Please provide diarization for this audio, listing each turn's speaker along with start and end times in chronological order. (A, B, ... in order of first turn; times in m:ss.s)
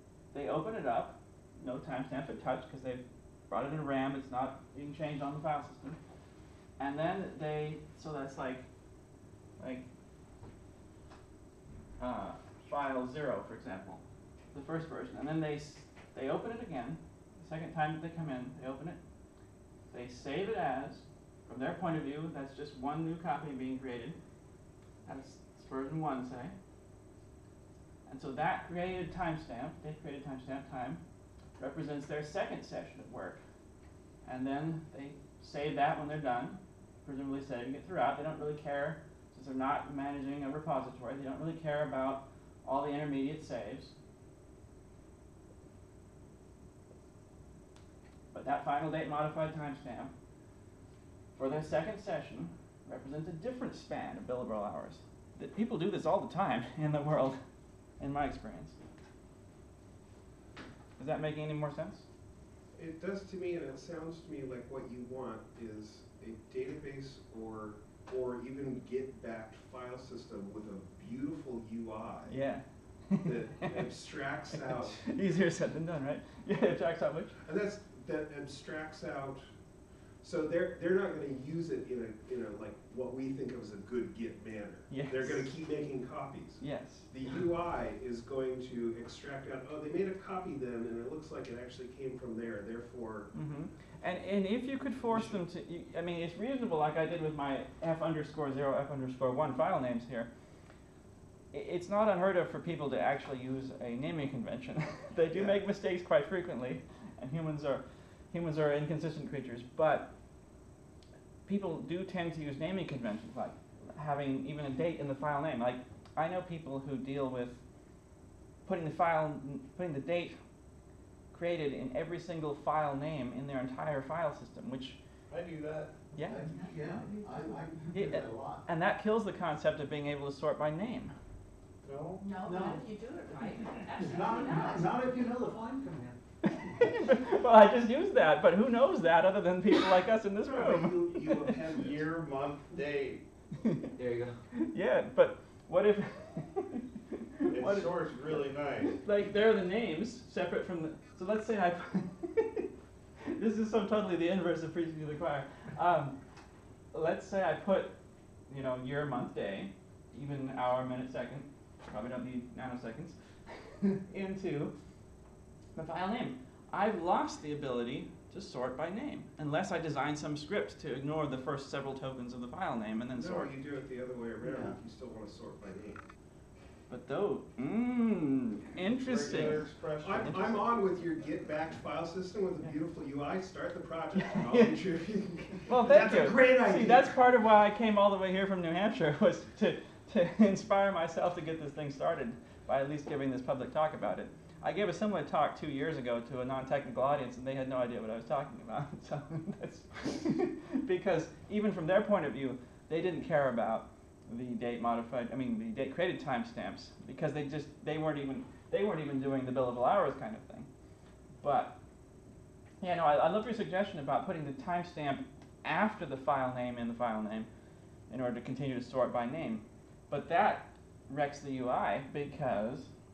0:00.3-0:06.0 A
0:06.8-0:08.7 A
0:09.6-0:09.9 A
0:12.0-0:14.0 A
0:14.5-0:19.0 A
0:19.9-0:24.2 A
0:25.1-0:26.6 A
0:28.1-0:31.0 A
0:31.6-0:33.4 A
0:34.2-0:44.0 A
0:48.3-0:50.1 A
0:51.4-0:57.4 A
0:58.0-0:58.8 A
1:01.0-1:02.0 A
1:02.8-1:12.4 B
1:12.3-1:13.9 A
1:13.2-1:15.0 B
1:14.5-1:17.3 A
1:17.4-1:19.5 B
1:20.2-1:33.3 B
1:24.9-1:25.5 A
1:26.6-1:27.1 A
1:33.3-1:40.3 A
1:35.1-1:35.4 B
1:41.5-1:50.1 A
1:51.5-1:57.6 A
1:58.6-2:00.4 A
2:01.3-2:05.0 A
2:05.3-2:06.1 C
2:06.2-2:06.5 A
2:06.2-2:08.6 D
2:06.4-2:07.8 E
2:07.9-2:11.1 A
2:11.8-2:12.3 C
2:12.2-2:15.0 E
2:12.4-2:12.9 D
2:14.0-2:16.2 D
2:16.4-2:21.6 A
2:20.4-2:22.1 B
2:21.7-2:23.2 C
2:23.6-2:23.9 A
2:24.5-2:27.9 A
2:27.5-2:29.0 C
2:28.9-2:32.7 A
2:33.3-2:36.2 A
2:36.9-2:38.0 A
2:38.5-2:44.7 A
2:45.8-2:53.5 A
2:53.1-2:56.0 B
2:54.4-2:54.8 D
2:56.9-3:00.6 A
2:59.0-3:00.6 C
3:00.0-3:07.2 B
3:04.2-3:04.8 A
3:05.7-3:30.7 A
3:31.4-3:31.8 A
3:32.8-3:37.5 A
3:38.1-3:42.9 A